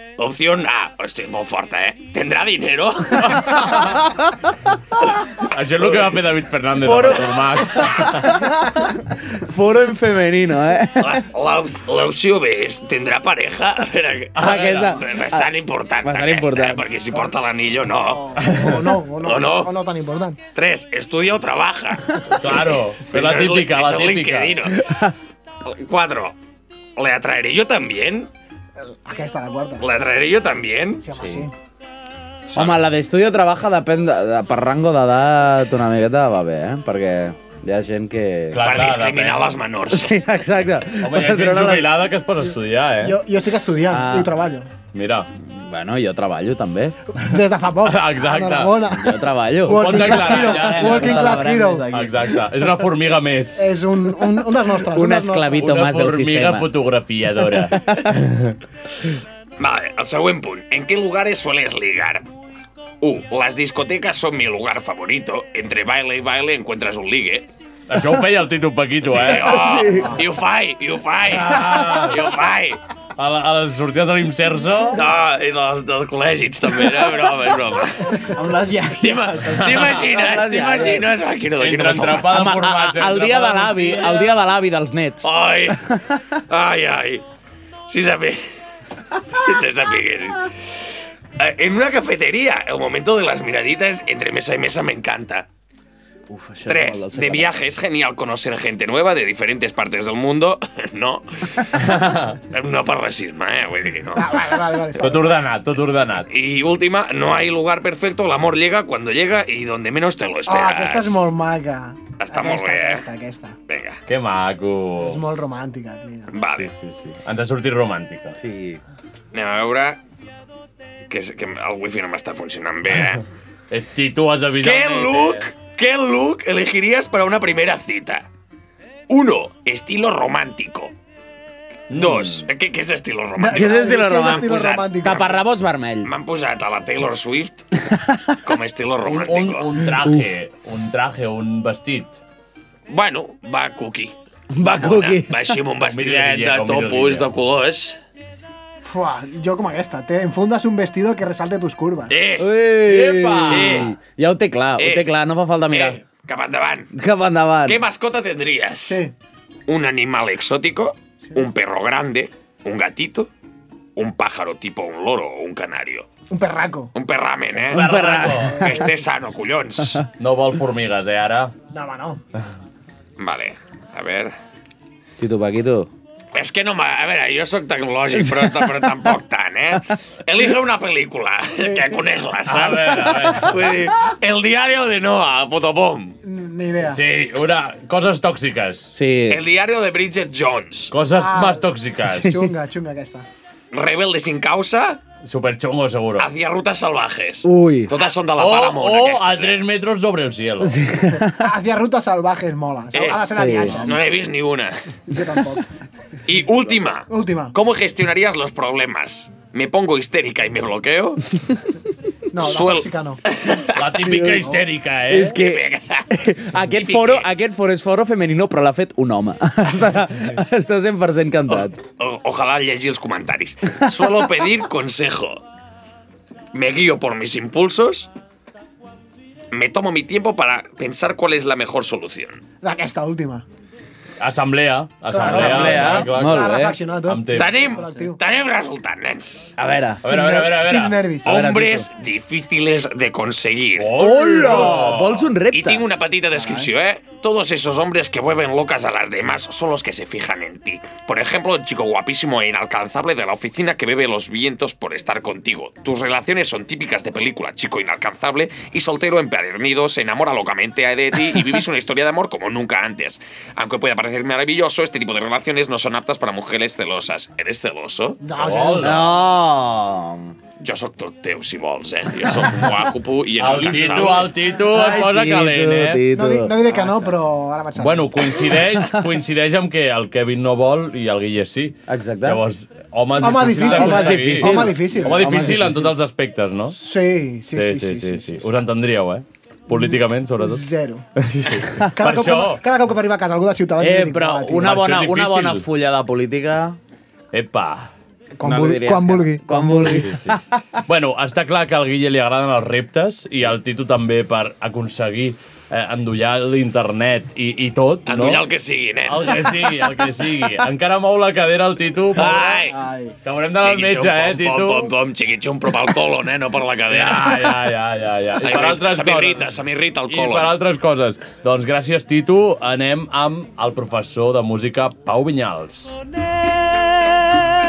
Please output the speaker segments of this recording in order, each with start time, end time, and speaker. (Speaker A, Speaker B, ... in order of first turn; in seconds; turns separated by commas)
Speaker A: 0.2-3.7, Speaker B: 3.2-4.0, Speaker C: 4.0-4.3, Speaker B: 5.4-8.4, Speaker C: 6.8-11.2, Speaker A: 11.0-18.4, Speaker C: 14.3-15.5, Speaker B: 14.4-14.8, Speaker C: 16.0-16.8, Speaker D: 18.0-20.4, Speaker A: 19.2-19.7, Speaker A: 20.5-24.9, Speaker B: 22.4-24.6, Speaker C: 24.7-25.1, Speaker A: 25.6-26.4, Speaker A: 27.0-28.3, Speaker D: 29.0-29.9, Speaker A: 29.8-31.0, Speaker D: 31.0-31.5, Speaker C: 31.2-31.4, Speaker A: 32.5-32.8, Speaker C: 32.5-38.6, Speaker B: 38.5-39.6, Speaker A: 38.6-40.1, Speaker C: 39.9-41.9, Speaker B: 41.0-43.2, Speaker D: 43.0-44.7, Speaker C: 43.9-44.3, Speaker B: 44.9-45.3, Speaker C: 45.4-47.0, Speaker D: 47.2-51.9, Speaker B: 47.8-48.8, Speaker C: 48.9-51.8, Speaker B: 49.7-53.7, Speaker E: 50.6-52.0, Speaker D: 53.6-55.7, Speaker C: 54.8-56.7, Speaker B: 55.6-58.5, Speaker C: 57.7-58.1, Speaker A: 59.6-62.2, Speaker A: 63.0-67.5, Speaker B: 67.9-69.8, Speaker A: 69.1-72.8, Speaker C: 69.5-70.1, Speaker B: 71.3-72.2, Speaker B: 73.2-75.0, Speaker A: 74.9-78.4, Speaker E: 78.3-80.5, Speaker A: 79.0-82.4, Speaker B: 79.6-80.0, Speaker C: 80.0-81.1, Speaker B: 81.6-84.3, Speaker C: 82.2-85.3, Speaker A: 85.2-87.2, Speaker A: 87.9-88.4, Speaker A: 89.2-90.5, Speaker A: 91.4-95.5, Speaker C: 96.3-97.5, Speaker A: 96.7-101.7, Speaker B: 101.8-102.4, Speaker A: 102.5-104.3, Speaker D: 104.1-105.4, Speaker B: 105.0-106.3, Speaker A: 106.3-111.3, Speaker D: 110.5-113.6, Speaker A: 112.2-113.0, Speaker A: 113.7-114.0, Speaker B: 114.1-115.2, Speaker D: 115.0-116.3, Speaker A: 116.3-116.7, Speaker B: 116.6-118.4, Speaker C: 118.4-118.8, Speaker A: 119.3-120.0, Speaker A: 121.1-123.2, Speaker B: 123.7-125.5, Speaker A: 124.6-128.2, Speaker A: 129.1-130.9, Speaker B: 131.9-132.5, Speaker A: 131.9-135.2, Speaker D: 133.3-135.3, Speaker C: 133.5-136.1, Speaker A: 136.0-137.7, Speaker C: 137.9-138.3, Speaker A: 138.4-139.7, Speaker B: 139.0-142.1, Speaker C: 140.0-140.3, Speaker A: 142.9-148.0, Speaker C: 144.5-145.5, Speaker B: 145.8-147.3, Speaker D: 148.8-152.1, Speaker A: 152.1-152.6, Speaker C: 152.4-156.0, Speaker B: 152.8-153.9, Speaker A: 153.5-153.9, Speaker A: 154.8-155.1, Speaker A: 155.7-156.9, Speaker C: 156.9-157.8, Speaker A: 157.6-159.0, Speaker D: 158.9-159.1, Speaker A: 159.7-163.3, Speaker A: 164.0-166.1, Speaker D: 166.3-166.9, Speaker A: 166.9-170.1, Speaker B: 167.7-168.7, Speaker C: 167.7-168.8, Speaker B: 170.2-171.5, Speaker D: 171.7-172.2, Speaker A: 173.2-174.3, Speaker C: 175.2-175.9, Speaker A: 176.3-186.2, Speaker C: 178.4-178.9, Speaker D: 181.6-182.0, Speaker B: 182.5-183.6, Speaker D: 186.2-187.0, Speaker B: 186.9-188.9, Speaker C: 188.9-189.4, Speaker A: 189.3-190.9, Speaker B: 190.9-192.5, Speaker D: 191.2-193.2, Speaker A: 193.7-195.0, Speaker B: 195.2-196.3, Speaker A: 196.2-199.6, Speaker C: 197.4-197.9, Speaker B: 198.4-200.9, Speaker C: 200.6-201.5, Speaker D: 201.1-204.0, Speaker A: 202.9-204.8, Speaker C: 203.3-203.9, Speaker D: 205.1-205.7, Speaker A: 206.2-211.2, Speaker D: 207.1-207.5, Speaker D: 212.3-213.2, Speaker A: 212.4-213.9, Speaker B: 213.8-215.4, Speaker C: 214.1-214.5, Speaker C: 215.1-221.8, Speaker A: 215.3-216.1, Speaker A: 216.7-217.3, Speaker A: 221.5-225.4, Speaker A: 226.5-228.1, Speaker A: 229.5-232.4, Speaker D: 232.6-233.4, Speaker B: 234.2-237.7, Speaker D: 235.1-238.2, Speaker C: 235.2-236.8, Speaker A: 237.3-239.5, Speaker C: 239.6-240.0, Speaker B: 240.0-241.1, Speaker D: 240.1-241.3, Speaker A: 241.2-244.1, Speaker C: 241.2-241.9, Speaker B: 243.8-245.3, Speaker C: 244.0-245.8, Speaker A: 245.5-268.2, Speaker D: 268.2-269.1, Speaker B: 268.4-269.2, Speaker C: 268.8-270.3, Speaker A: 270.6-274.3, Speaker B: 273.4-276.0, Speaker C: 274.6-276.6, Speaker D: 274.7-275.0, Speaker D: 276.1-278.4, Speaker B: 277.8-286.8, Speaker C: 281.9-282.4, Speaker D: 283.2-285.6, Speaker C: 283.5-285.9, Speaker D: 286.8-288.5, Speaker B: 287.5-290.6, Speaker D: 289.7-291.1, Speaker B: 291.2-292.6, Speaker C: 291.6-291.9, Speaker D: 291.9-294.8, Speaker C: 293.8-296.8, Speaker B: 294.6-295.6, Speaker B: 297.3-297.9, Speaker D: 298.4-300.1, Speaker C: 298.4-300.6, Speaker B: 299.8-308.4, Speaker A: 308.1-309.6, Speaker B: 309.1-312.5, Speaker A: 312.1-312.8, Speaker E: 312.2-313.1, Speaker B: 313.2-314.9, Speaker A: 313.6-317.5, Speaker B: 316.9-319.4, Speaker A: 318.4-320.5, Speaker B: 320.1-325.9